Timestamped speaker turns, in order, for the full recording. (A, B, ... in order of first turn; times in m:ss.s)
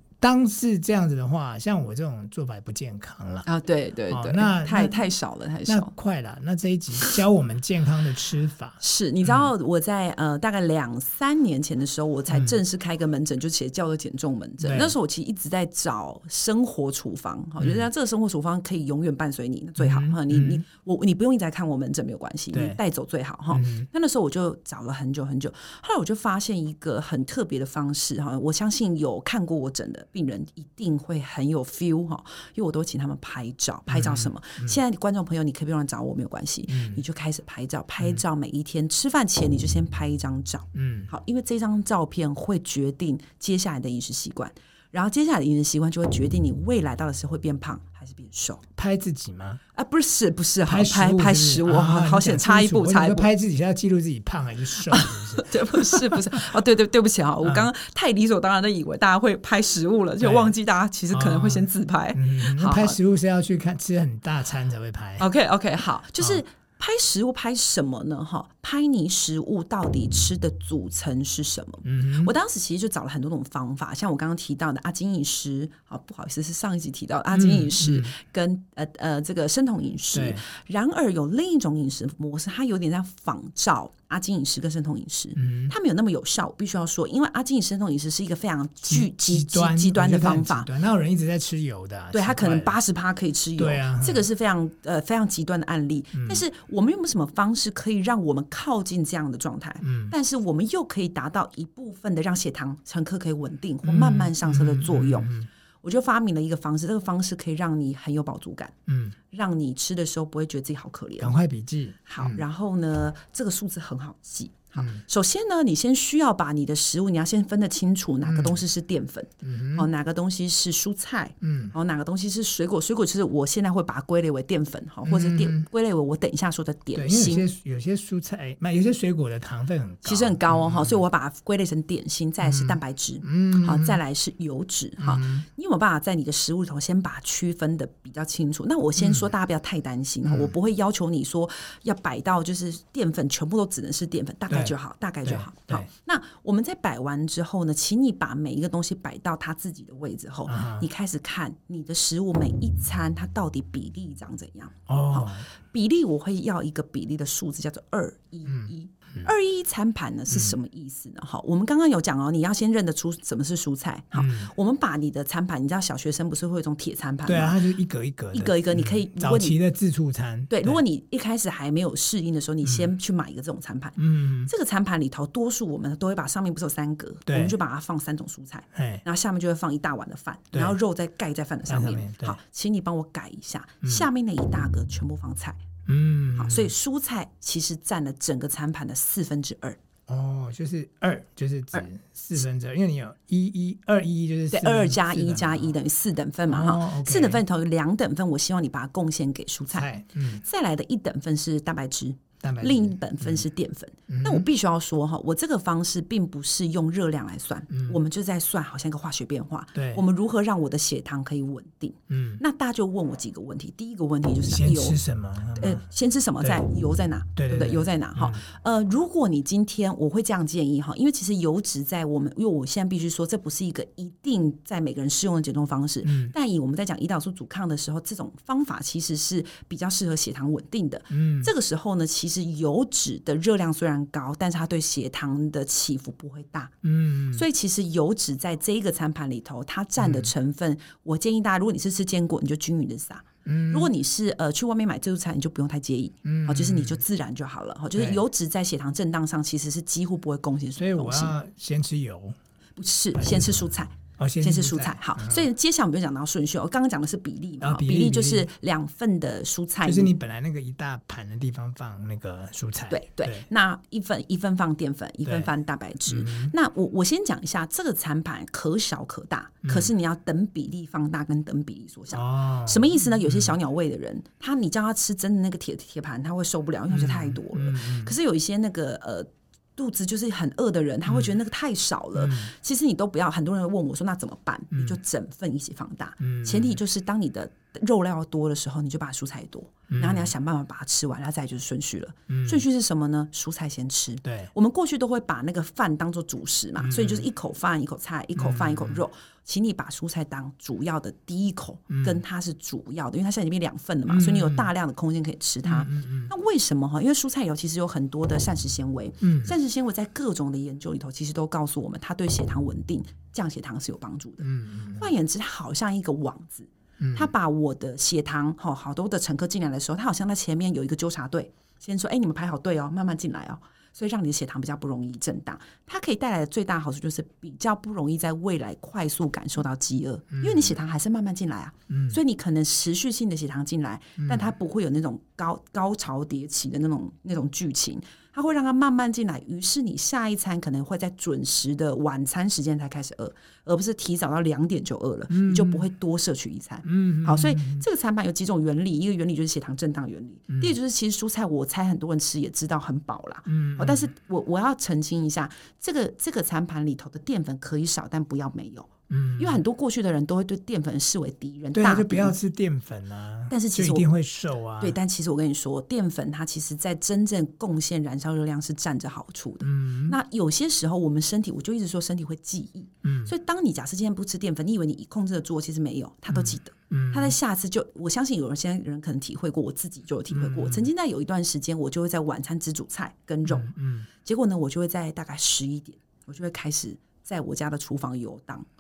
0:00.2-0:03.5 A
0:03.4-0:05.9 B
0:04.1-0:05.0 A
0:05.7-0:09.5 A
0:08.8-0:48.6 B
0:12.3-0:12.6 A
0:14.6-0:15.0 A
0:17.6-0:17.8 A
0:19.8-0:20.6 A
0:22.5-0:22.8 A
0:23.5-0:23.9 A
0:33.9-0:34.8 A
0:36.7-0:37.0 A
0:40.7-0:41.1 A
0:48.8-0:49.6 A
0:49.7-0:53.3 B
0:50.7-0:56.2 A
0:54.9-1:03.0 B
0:57.4-0:57.7 A
1:00.2-1:00.5 A
1:01.1-1:05.3 A
1:05.2-1:30.7 B
1:11.8-1:12.3 A
1:17.3-1:18.1 A
1:20.1-1:20.4 A
1:25.4-1:25.7 A
1:28.9-1:32.8 A
1:32.1-1:48.7 B
1:33.6-1:34.3 A
1:36.1-1:36.4 A
1:39.8-1:40.1 A
1:43.8-1:45.5 A
1:48.9-1:49.2 A
1:49.3-1:51.4 B
1:51.2-1:52.4 A
1:52.1-2:07.5 B
1:54.8-1:55.0 A
1:58.2-1:58.6 A
1:59.4-1:59.9 A
2:01.4-2:01.8 A
2:05.0-2:05.6 A
2:06.9-2:11.0 A
2:10.0-2:47.6 B
2:12.4-2:14.0 A
2:15.0-2:15.5 A
2:19.0-2:19.3 A
2:20.2-2:20.5 A
2:25.2-2:25.9 A
2:30.5-2:30.9 A
2:34.9-2:35.5 A
2:38.5-2:39.3 A
2:40.3-2:40.6 A
2:44.1-2:44.5 A
2:47.2-2:50.8 A
2:48.3-2:49.6 B
2:50.5-3:05.6 B
2:52.6-2:52.9 A
2:54.0-2:54.5 A
2:57.3-2:57.6 A
2:58.8-2:59.0 A
3:01.7-3:02.4 A
3:05.9-3:06.7 A
3:06.4-3:09.8 B
3:10.1-3:15.8 A
3:14.5-3:19.9 B
3:16.5-3:17.4 A
3:19.7-3:20.4 A
3:20.4-3:35.0 B
3:22.4-3:23.4 A
3:24.1-3:24.5 A
3:27.7-3:28.0 A
3:29.8-3:30.0 A
3:32.1-3:32.4 A
3:34.4-3:35.8 A
3:35.5-3:56.7 B
3:37.4-3:38.4 A
3:46.0-3:46.3 A
3:51.1-3:51.5 A
3:56.8-3:57.4 A
3:57.3-4:11.3 B
4:00.0-4:00.3 A
4:03.4-4:03.9 A
4:06.2-4:07.0 A
4:08.0-4:08.2 A
4:10.8-4:12.4 A
4:12.8-4:20.1 B
4:13.2-4:15.5 A
4:17.6-4:18.5 A
4:19.8-4:23.5 A
4:22.9-6:02.4 B
4:25.2-4:25.5 A
4:26.1-4:26.5 A
4:29.6-4:29.9 A
4:32.1-4:33.5 A
4:36.9-4:38.1 A
4:41.1-4:41.3 A
4:42.2-4:42.5 A
4:44.7-4:45.0 A
4:46.2-4:46.8 A
4:49.9-4:50.3 A
4:52.3-4:52.6 A
4:54.2-4:54.5 A
4:56.8-4:57.2 A
4:58.4-4:59.0 A
5:01.9-5:02.2 A
5:04.1-5:04.7 A
5:05.6-5:06.3 A
5:09.2-5:09.5 A
5:14.4-5:15.1 A
5:17.0-5:17.3 A
5:30.3-5:30.8 A
5:31.9-5:32.2 A
5:34.2-5:34.5 A
5:45.3-5:45.9 A
5:46.8-5:47.8 A
5:50.5-5:50.8 A
5:53.5-5:54.1 A
5:59.1-5:59.6 A
6:01.7-6:05.0 A
6:03.5-6:04.1 B
6:04.8-6:28.7 B
6:09.6-6:10.2 A
6:13.0-6:13.3 A
6:16.3-6:17.4 A
6:20.3-6:20.9 A
6:23.5-6:24.1 A